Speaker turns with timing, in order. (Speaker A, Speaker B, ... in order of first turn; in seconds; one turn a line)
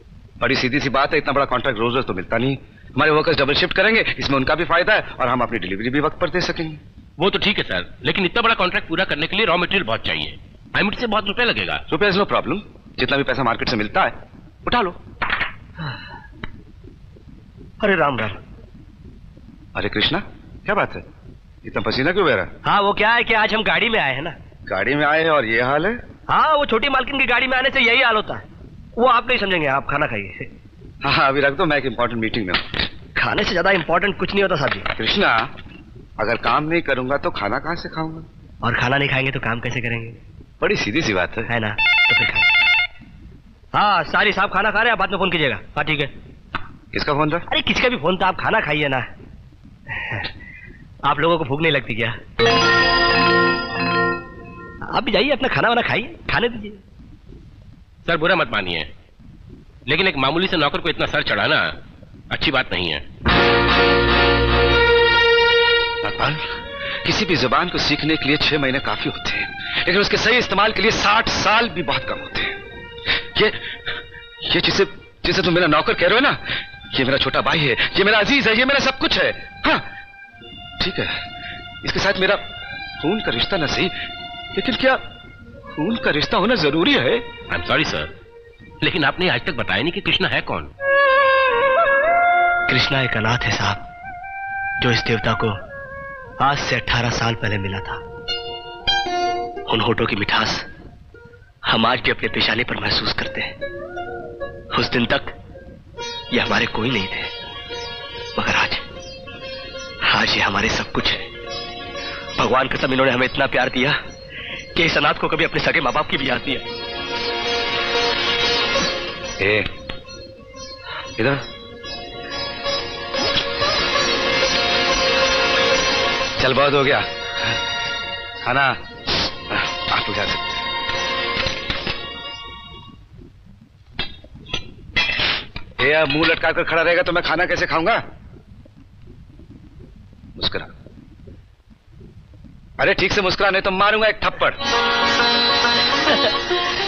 Speaker A: 0.4-6.8
Speaker B: 7.2-11.8
Speaker A: 11.9-14.1
Speaker A: 14.7-15.0
Speaker C: 17.8-18.4
Speaker A: 19.8-21.0
Speaker A: 21.6-22.5
Speaker C: 22.6-24.4
Speaker A: 24.7-26.0
Speaker C: 26.3-28.4
Speaker C: 29.0-30.5
Speaker A: 31.0-32.7
Speaker C: 33.1-34.9
Speaker A: 35.0-35.5
Speaker A: 36.2-38.3
Speaker C: 38.6-40.2
Speaker A: 40.6-41.5
Speaker C: 41.5-42.5
Speaker C: 43.7-46.1
Speaker A: 46.9-47.5
Speaker C: 47.5-49.1
Speaker C: 49.9-50.3
Speaker C: 51.0-52.2
Speaker C: 54.9-56.8
Speaker B: 58.0-58.9
Speaker B: 59.9-61.7
Speaker B: 62.3-63.0
Speaker A: 66.0-72.6
Speaker A: 73.3-73.8
Speaker A: 74.4-79.8
Speaker A: 80.8-81.2
Speaker A: 81.8-82.4
Speaker A: 83.0-83.9
Speaker A: 84.5-85.0
Speaker A: 85.7-87.2
Speaker B: 87.5-88.1
Speaker B: 88.8-90.7
Speaker C: 92.7-93.8
Speaker C: 94.8-95.6
Speaker C: 96.4-98.0
Speaker C: 99.7-100.7
Speaker C: 101.7-103.5
Speaker C: 104.7-105.4
Speaker C: 106.3-107.3
Speaker C: 108.4-108.8
Speaker C: 110.0-111.3
Speaker C: 112.4-114.0
Speaker C: 114.8-116.7
Speaker A: 119.4-119.7
Speaker A: 121.2-121.4
Speaker A: 126.4-127.6
Speaker A: 128.4-130.4
Speaker A: 135.8-138.0
Speaker A: 140.4-140.7
Speaker A: 142.8-144.6
Speaker C: 145.9-146.5